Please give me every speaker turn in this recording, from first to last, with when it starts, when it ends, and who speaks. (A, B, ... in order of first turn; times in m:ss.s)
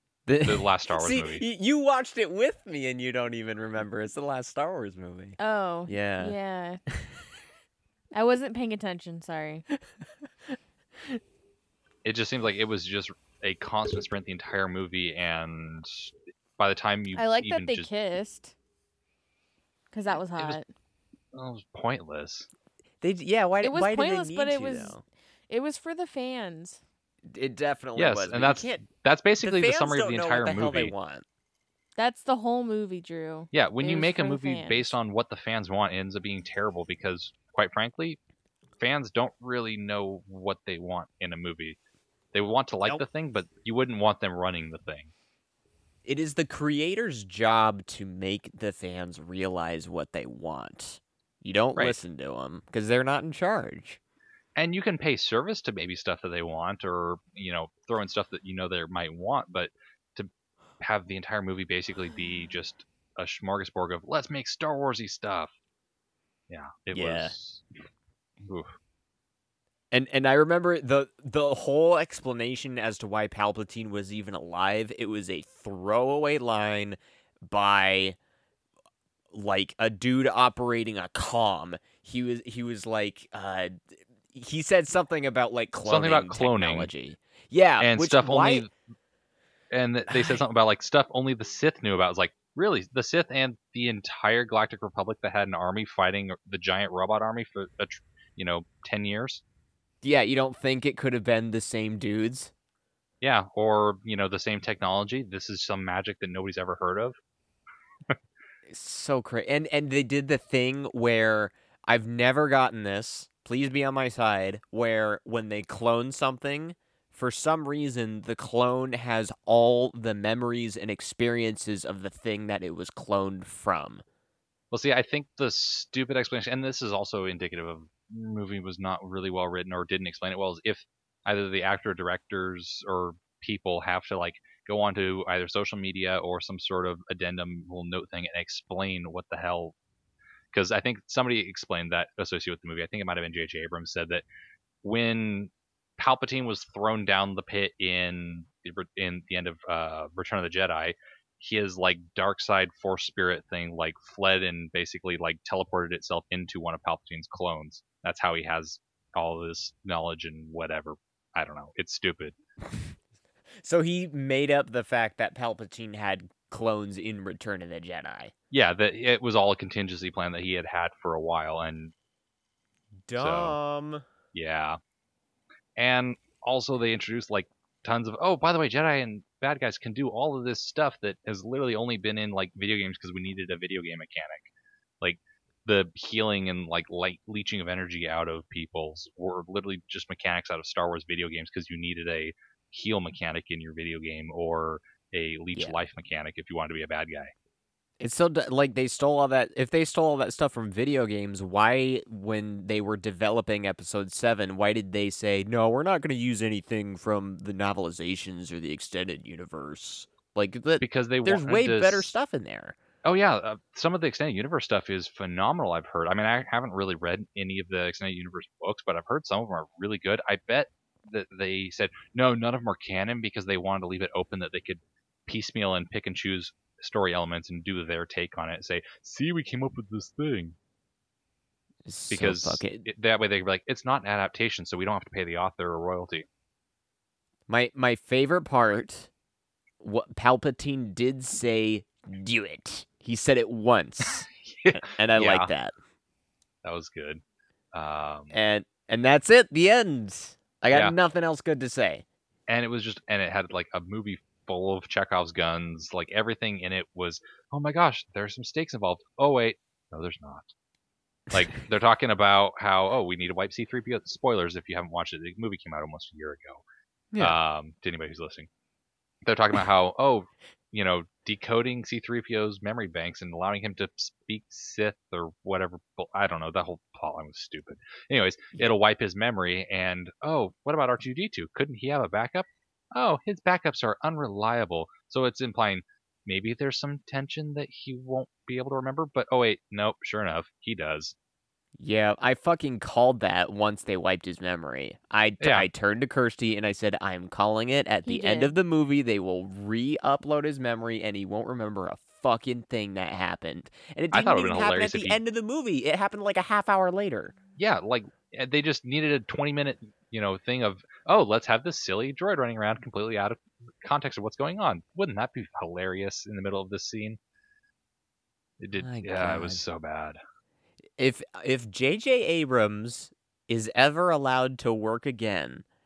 0:00.3-0:06.4 A
0:00.4-0:01.4 B
0:05.4-0:06.8 C
0:08.1-0:09.6 C
0:12.0-0:17.9 B
0:17.2-0:18.5 C
0:19.9-0:20.7 C
0:21.3-0:22.5 B
0:23.0-0:25.0 A
0:23.6-0:26.8 C
0:27.3-0:28.8 A
0:28.0-0:30.9 B
0:29.4-0:31.2 A
0:32.0-0:34.9 C
0:33.5-0:38.2 B
0:38.8-0:41.8 B
0:42.3-0:45.1 B
0:46.0-0:54.0 A
0:54.6-1:05.5 B
1:06.5-1:07.7 B
1:06.9-1:07.4 A
1:08.4-1:08.7 B
1:09.9-1:18.2 A
1:19.3-1:28.7 A
1:25.8-1:26.9 B
1:27.8-1:28.7 B
1:29.7-1:39.4 B
1:30.1-1:30.4 A
1:40.0-1:42.5 A
1:43.2-1:47.2 B
1:48.7-2:04.0 A
2:04.7-2:19.8 B
2:20.5-2:24.3 B
2:24.8-2:42.4 B
2:43.6-2:48.3 A
2:48.5-2:51.9 B
2:53.1-2:54.0 A
2:53.2-2:53.6 B
2:54.3-2:54.8 B
2:55.8-3:04.5 B
3:05.0-3:17.3 B
3:18.0-3:32.8 A
3:30.8-3:32.1 B
3:33.0-3:50.6 B
3:51.9-3:52.9 A
3:52.1-3:56.3 B
3:57.5-3:59.1 A
3:59.8-4:05.7 A
4:04.1-4:05.5 B
4:06.6-4:07.2 B
4:07.7-4:08.4 B
4:08.3-4:12.0 A
4:12.5-4:20.5 B
4:21.3-4:26.6 B
4:27.1-4:27.4 A
4:27.2-4:28.5 B
4:29.2-4:51.2 B
4:51.8-5:07.3 A
4:55.4-4:55.7 B
4:58.1-4:58.5 C
5:04.1-5:05.2 B
5:07.6-5:17.2 B
5:18.6-5:20.2 B
5:18.8-5:19.6 A
5:21.0-5:25.6 A